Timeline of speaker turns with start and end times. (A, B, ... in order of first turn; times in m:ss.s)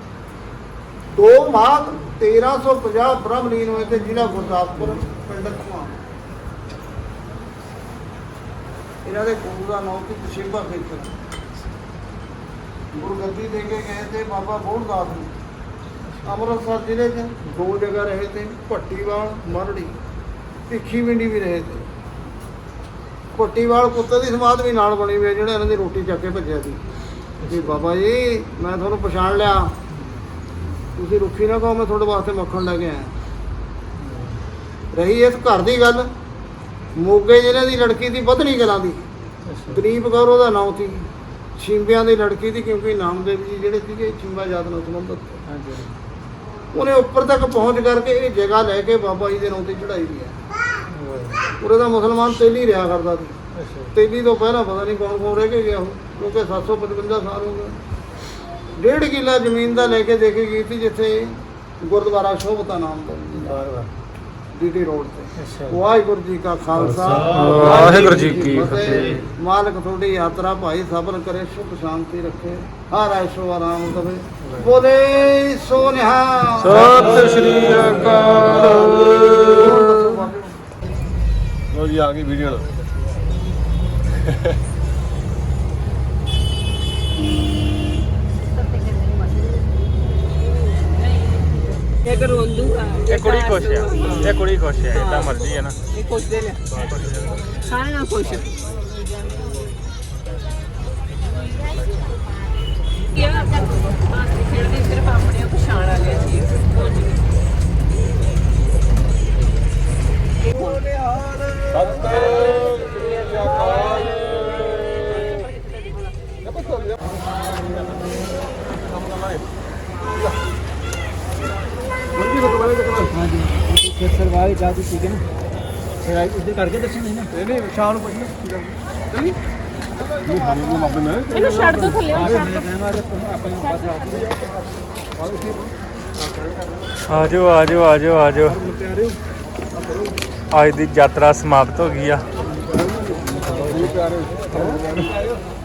0:01.1-0:06.0 A
0:09.0-0:11.1 A
0:12.9-0:15.3 A
0:16.2-0:19.9 A
0:20.7-0:21.8 A
0:23.3-0:26.8 A
0:27.4-0:27.8 B
0:27.4-0:29.7 A
0:30.9-0:33.1 A
0:34.0-0:34.4 B
0:34.9-0:36.1 A
0:37.0-0:39.0 A
0:39.4-0:39.8 B
0:39.7-0:45.4 A
0:45.5-0:45.9 B
0:46.7-0:50.4 A
0:50.9-0:51.5 B
0:51.6-0:53.4 A
0:53.6-0:53.9 B
0:53.9-0:57.7 A
0:58.8-1:03.7 A
1:04.5-1:17.1 A
1:05.4-1:05.8 B
1:06.8-1:09.2 B
1:14.4-1:14.7 B
1:16.5-1:19.9 B
1:19.4-1:20.6 A
1:21.8-1:22.6 C
1:32.0-1:34.3 D
1:33.0-1:35.8 B
1:34.9-1:35.4 D
1:36.7-1:37.4 B
1:37.6-1:38.5 D
1:43.1-1:47.1 D
1:50.5-1:50.8 D
1:51.7-1:52.9 C
1:53.7-1:54.1 C
2:02.2-2:05.2 E
2:06.0-2:07.3 E
2:07.5-2:08.3 C
2:10.2-2:12.2 C
2:11.3-2:12.7 D
2:11.3-2:14.3 E
2:17.0-2:18.6 B
2:18.6-2:19.1 C
2:20.5-2:22.2 B
2:23.4-2:24.8 C
2:23.5-2:23.8 E